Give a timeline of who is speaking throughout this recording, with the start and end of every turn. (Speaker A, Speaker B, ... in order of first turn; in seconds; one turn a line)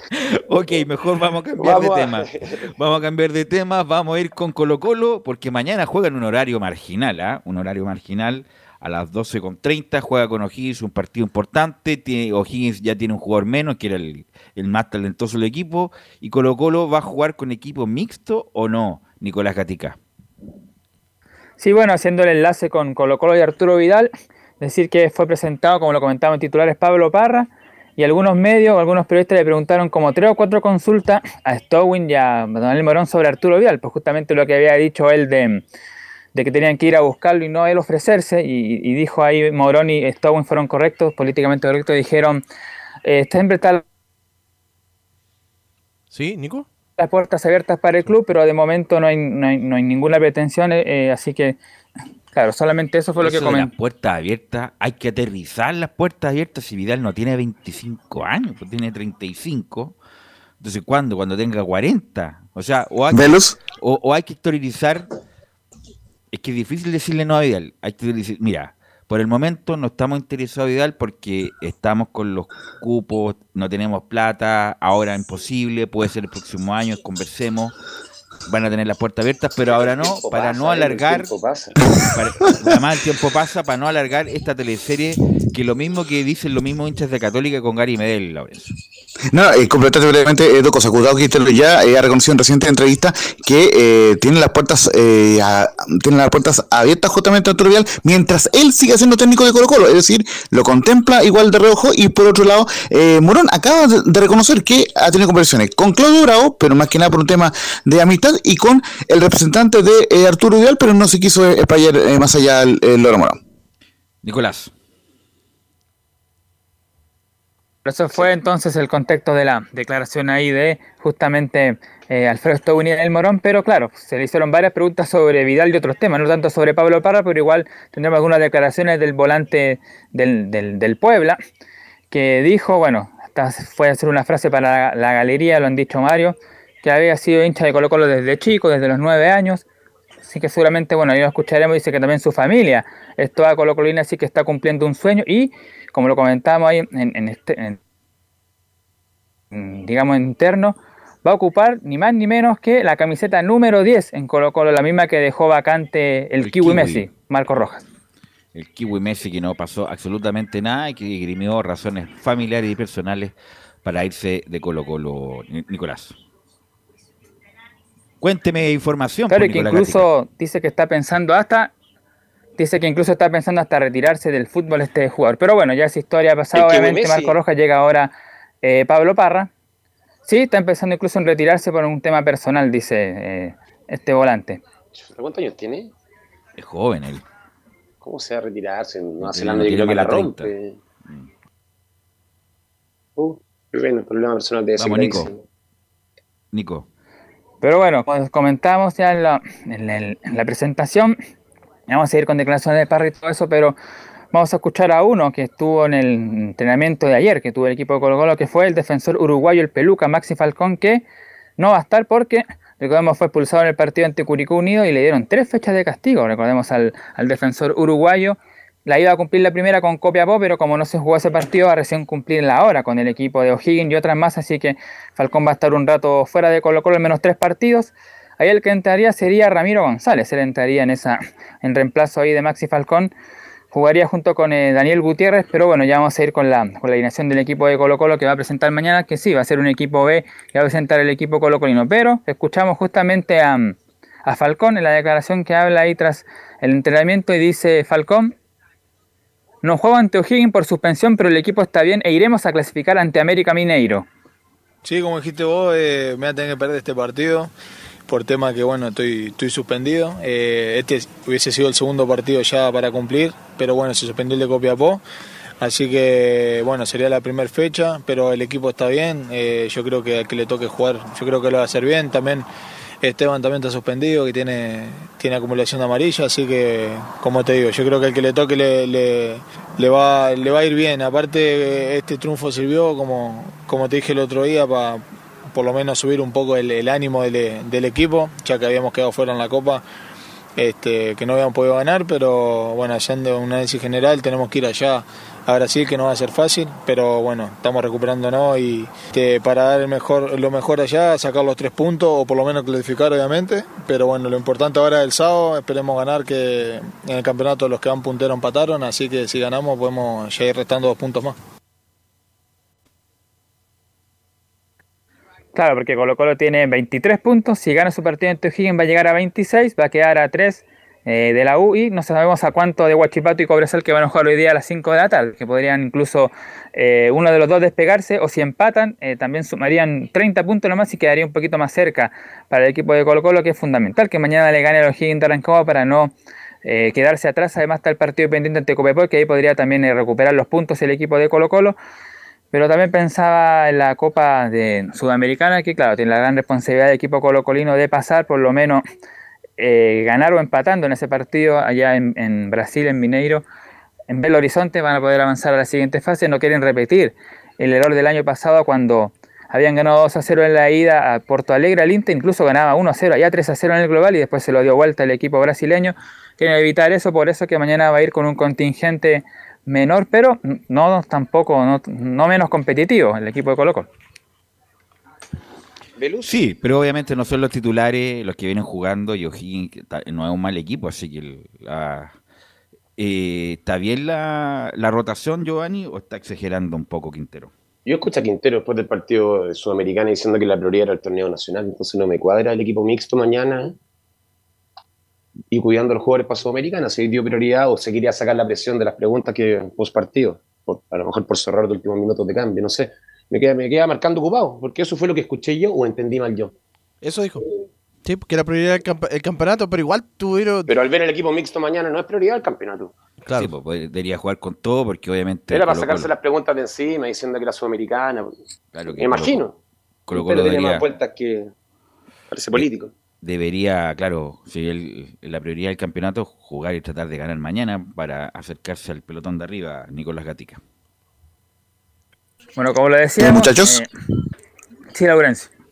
Speaker A: 0.2-20.0
Speaker B: 1.6-2.7
Speaker C: 21.6-35.6
Speaker C: 36.4-42.4
Speaker C: 43.0-43.8
Speaker D: 46.1-46.7
Speaker C: 47.0-51.6
Speaker C: 52.3-53.7
Speaker A: 53.2-60.0
Speaker A: 60.6-65.1
Speaker E: 63.1-63.6
Speaker A: 66.3-77.8
Speaker A: 78.5-81.3
Speaker B: 79.6-81.8
Speaker A: 82.1-88.7
Speaker E: 89.3-113.4
Speaker A: 114.2-114.7
Speaker C: 117.8-131.4
Speaker C: 132.1-139.7
Speaker C: 140.2-147.8
Speaker C: 149.5-157.8
Speaker A: 156.4-157.1
Speaker A: 158.5-166.2
Speaker A: 168.2-170.1
Speaker C: 169.3-171.7
Speaker C: 172.6-179.5
Speaker B: 176.5-177.3
Speaker C: 180.3-184.6
Speaker B: 184.9-185.9
Speaker A: 186.6-187.2
Speaker B: 188.0-190.8
Speaker A: 189.2-190.5
Speaker B: 193.2-195.4
Speaker A: 194.8-195.3
Speaker A: 196.5-196.9
Speaker C: 197.6-201.2
Speaker C: 201.9-203.8
Speaker C: 204.3-211.1
Speaker C: 211.6-233.1
Speaker C: 233.7-248.3
Speaker C: 249.6-254.1
Speaker F: 254.8-257.5
Speaker F: 258.1-265.0
Speaker F: 265.6-272.5
Speaker F: 273.0-289.8
Speaker F: 290.6-311.4
Speaker C: 315.6-336.1
Speaker C: 336.6-341.8
Speaker C: 342.5-348.8
Speaker C: 349.6-353.4
Speaker C: 354.1-373.9
Speaker B: 376.0-376.4
Speaker A: 376.2-382.1
Speaker A: 383.0-387.5
Speaker B: 387.9-393.8
Speaker B: 395.5-406.5
Speaker D: 407.0-407.4
Speaker D: 408.1-410.7
Speaker B: 410.7-412.9
Speaker D: 413.2-413.5
Speaker A: 413.4-416.1
Speaker B: 415.5-418.3
Speaker A: 418.7-419.4
Speaker B: 419.0-419.6
Speaker A: 420.1-420.9
Speaker B: 420.1-421.5
Speaker B: 422.3-422.9
Speaker A: 423.2-430.6
Speaker C: 432.6-433.9
Speaker E: 433.2-433.9
Speaker C: 434.9-435.5